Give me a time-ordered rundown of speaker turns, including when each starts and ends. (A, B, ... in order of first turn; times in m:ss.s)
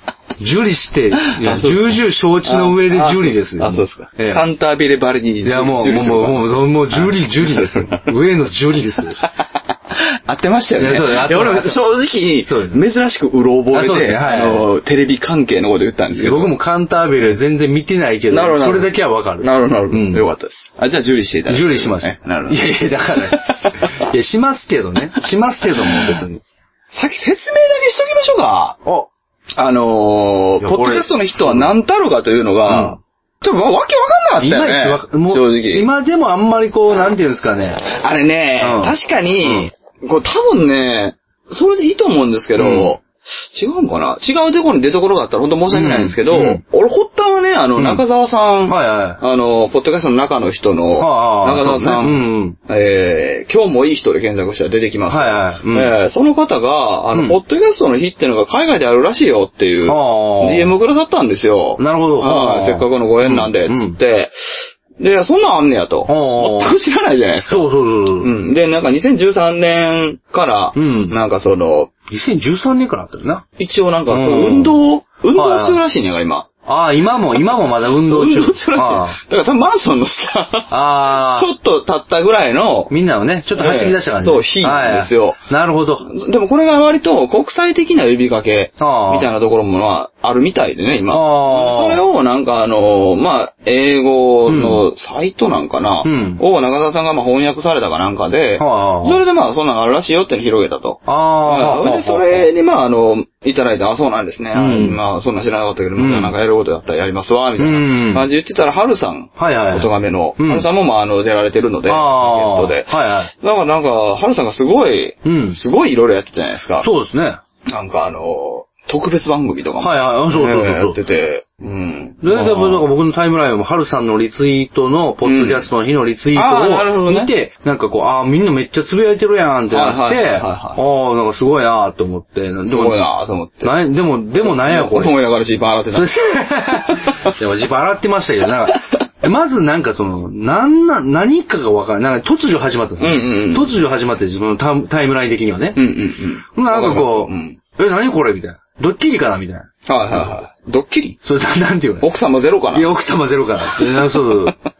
0:00.4-0:04.4 A
0:01.3-0:08.1 B
0:05.4-0:09.2 A
0:09.2-0:16.5 B
0:10.8-0:11.8 A
0:12.5-0:12.8 A
0:13.7-0:14.7 A
0:16.2-0:20.2 A
0:18.3-0:22.6 B
0:21.5-0:26.4 A
0:23.2-0:24.0 B
0:25.8-0:26.2 B
0:26.9-0:28.8 B
0:29.6-0:35.9 B
0:30.6-0:31.7 A
0:32.7-0:33.0 A
0:34.4-0:37.9 A
0:37.9-1:07.7 B
0:38.6-0:39.7 A
0:42.6-0:42.9 A
0:45.7-0:46.6 A
0:47.8-0:48.0 A
0:48.7-0:49.2 A
0:51.0-0:52.6 A
0:55.1-0:55.9 A
0:59.9-1:00.8 A
1:01.8-1:04.0 A
1:06.1-1:06.8 A
1:07.5-1:08.3 A
1:08.2-1:11.9 B
1:10.8-1:11.2 A
1:12.1-1:13.4 A
1:13.6-1:16.5 B
1:14.1-1:14.8 A
1:15.3-1:15.8 A
1:16.7-1:19.2 A
1:17.9-1:22.9 B
1:20.7-1:21.5 A
1:22.9-1:26.1 A
1:23.6-1:25.4 B
1:26.0-1:56.9 B
1:28.8-1:29.3 A
1:31.1-1:32.0 A
1:34.5-1:34.8 A
1:36.0-1:36.4 A
1:38.6-1:39.2 A
1:41.1-1:42.5 A
1:44.6-1:45.0 A
1:46.0-1:46.4 A
1:47.6-1:48.3 A
1:49.4-1:50.7 A
1:51.9-1:53.3 A
1:55.2-1:55.6 A
1:56.8-1:57.4 A
1:57.7-2:02.9 B
1:59.8-2:01.0 A
2:02.2-2:13.0 A
2:05.2-2:05.7 B
2:06.3-2:07.3 B
2:09.7-2:10.8 B
2:12.7-2:13.7 B
2:13.6-2:15.1 A
2:14.4-2:17.3 B
2:15.9-2:25.9 A
2:23.0-2:23.8 B
2:25.8-2:27.6 B
2:26.5-2:29.7 A
2:29.9-2:31.2 B
2:31.2-2:32.1 A
2:32.0-2:32.9 B
2:32.7-2:34.6 A
2:34.0-2:34.2 B